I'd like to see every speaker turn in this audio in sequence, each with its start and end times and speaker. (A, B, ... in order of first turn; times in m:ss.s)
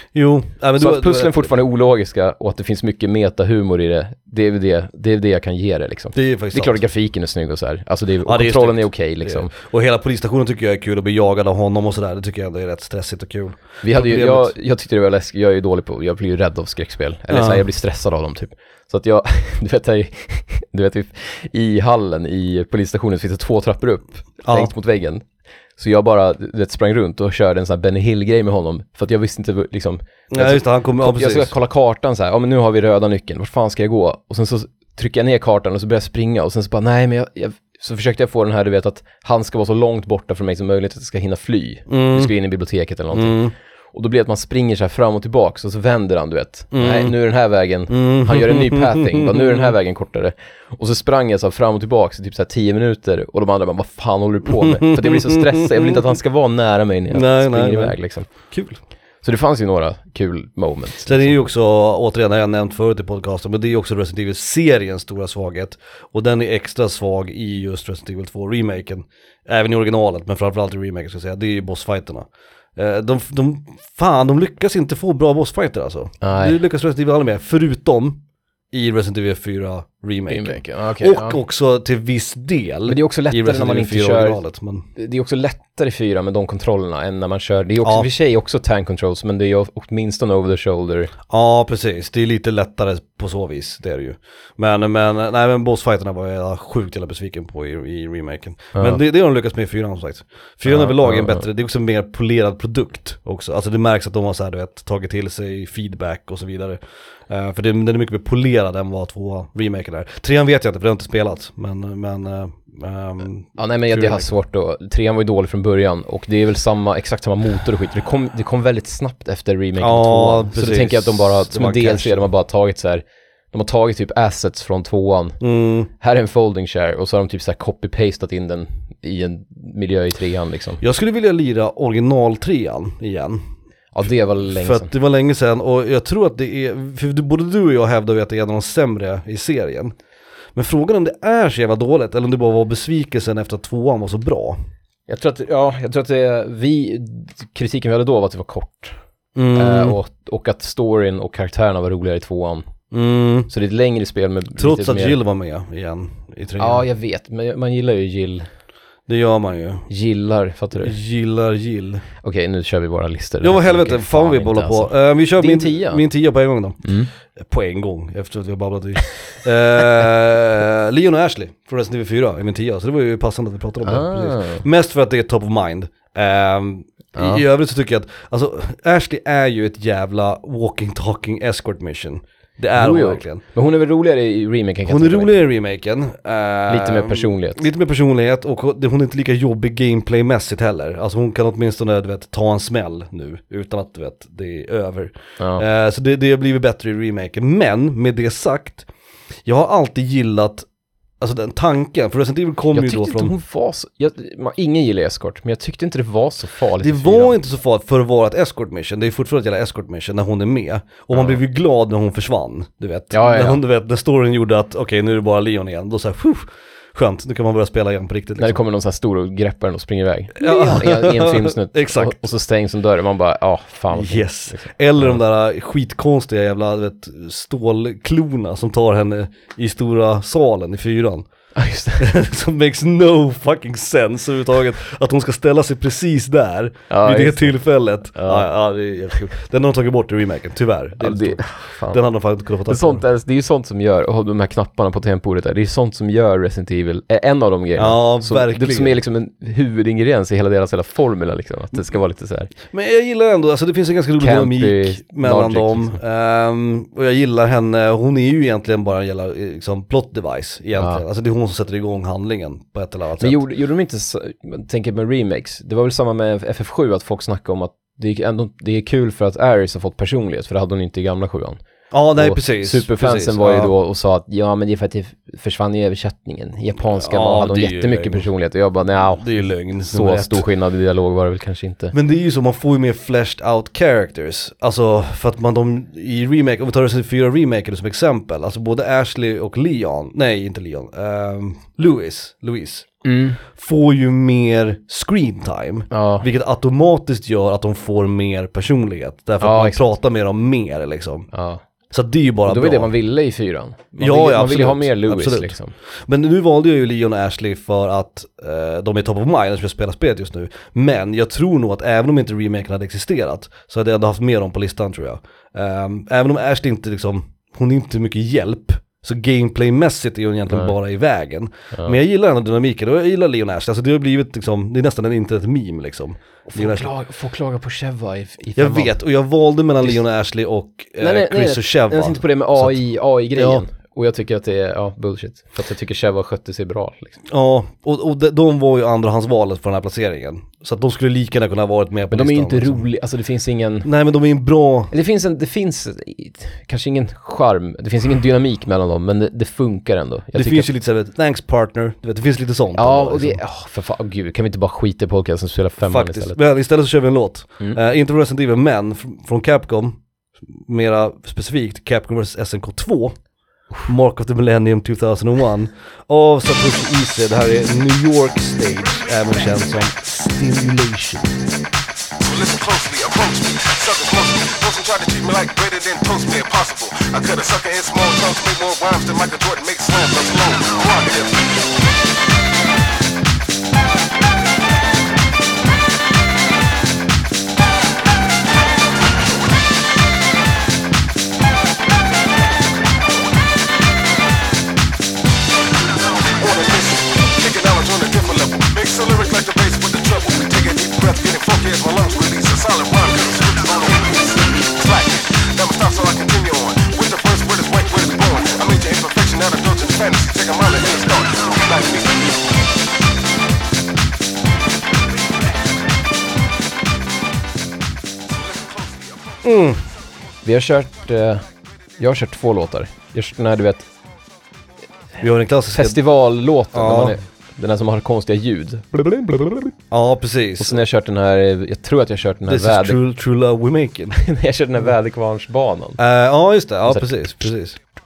0:00.1-0:01.5 A
0:00.8-0:09.5 B
0:06.1-0:06.8 A
0:08.2-0:14.5 A
0:13.8-0:25.2 B
0:17.3-0:17.6 A
0:24.4-0:24.7 A
0:25.8-0:58.3 B
0:30.3-0:31.5 A
0:41.9-0:42.3 A
0:43.1-0:43.5 A
0:46.7-0:47.2 A
0:47.9-0:49.7 A
0:54.5-0:56.0 A
0:57.1-0:58.8 A
0:59.2-1:01.3 B
1:01.0-1:24.9 A
1:16.2-1:16.6 B
1:20.3-1:21.4 B
1:22.9-1:24.4 B
1:25.0-1:31.1 B
1:27.8-1:28.1 A
1:31.3-1:54.3 A
1:40.7-1:41.4 B
1:53.6-2:05.4 B
1:59.8-2:02.3 A
2:05.4-2:05.9 A
2:06.0-2:10.8 B
2:10.8-2:13.4 A
2:13.9-2:14.9 B
2:14.5-2:19.9 A
2:20.6-2:24.6 A
2:25.1-2:29.0 B
2:29.4-2:30.0 A
2:29.5-2:32.7 B
2:32.9-2:33.5 A
2:33.5-2:35.2 B
2:34.6-2:36.8 A
2:36.6-2:38.5 B
2:39.1-2:39.9 A
2:39.9-2:40.9 B
2:40.8-2:42.0 A
2:42.2-2:46.0 B
2:43.4-3:03.4 A
2:46.8-2:47.1 B
2:53.8-2:54.6 B
2:57.1-2:57.4 B
3:02.7-3:05.4 B
3:04.9-3:18.9 A
3:06.7-3:07.6 B
3:15.4-3:15.6 B
3:19.4-3:20.7 A
3:21.2-3:23.3 A
3:22.7-3:27.4 B
3:26.8-3:38.6 A
3:31.1-3:31.4 B
3:33.1-3:33.6 B
3:38.4-3:45.2 B
3:40.4-3:42.2 A
3:43.9-3:51.3 A
3:51.5-3:52.1 B
3:52.0-4:03.0 A
3:56.9-3:57.6 B
3:58.2-3:58.5 B
4:01.0-4:02.0 B
4:02.7-4:12.5 B
4:07.8-4:09.0 A
4:12.7-4:23.4 A
4:14.2-4:16.0 B
4:20.8-4:21.0 B
4:23.2-4:31.6 B
4:31.9-4:33.7 A
4:32.2-4:39.3 B
4:36.9-4:38.3 A
4:39.0-4:40.4 A
4:39.9-4:41.9 B
4:41.9-4:52.9 A
4:53.0-4:53.4 B
4:53.4-5:01.3 A
4:55.9-4:56.2 B
4:59.4-4:59.8 B
5:01.3-5:01.6 B
5:01.9-5:02.9 A
5:02.4-5:05.7 B
5:04.0-5:05.6 A
5:06.1-5:26.9 A
5:26.5-5:29.0 B
5:28.6-5:32.8 A
5:31.0-5:37.1 B
5:33.3-5:33.6 A
5:37.3-5:42.8 A
5:42.1-5:43.9 B
5:43.8-5:44.9 A
5:44.9-5:50.7 B
5:50.3-5:53.4 A
5:52.8-5:56.4 B
5:55.8-6:00.0 A
6:00.6-6:03.2 A
6:03.8-6:11.4 A
6:12.2-6:21.4 C
6:36.2-6:52.4 C
6:58.3-6:59.4 C
6:59.4-6:59.8 A
7:00.4-7:01.4 B
7:02.0-7:03.8 B
7:05.2-7:06.0 A
7:05.7-7:09.7 B
7:06.7-7:07.2 A
7:09.9-7:10.8 A
7:10.6-7:13.0 B
7:12.5-7:14.2 A
7:14.1-7:16.0 B
7:16.0-7:17.8 A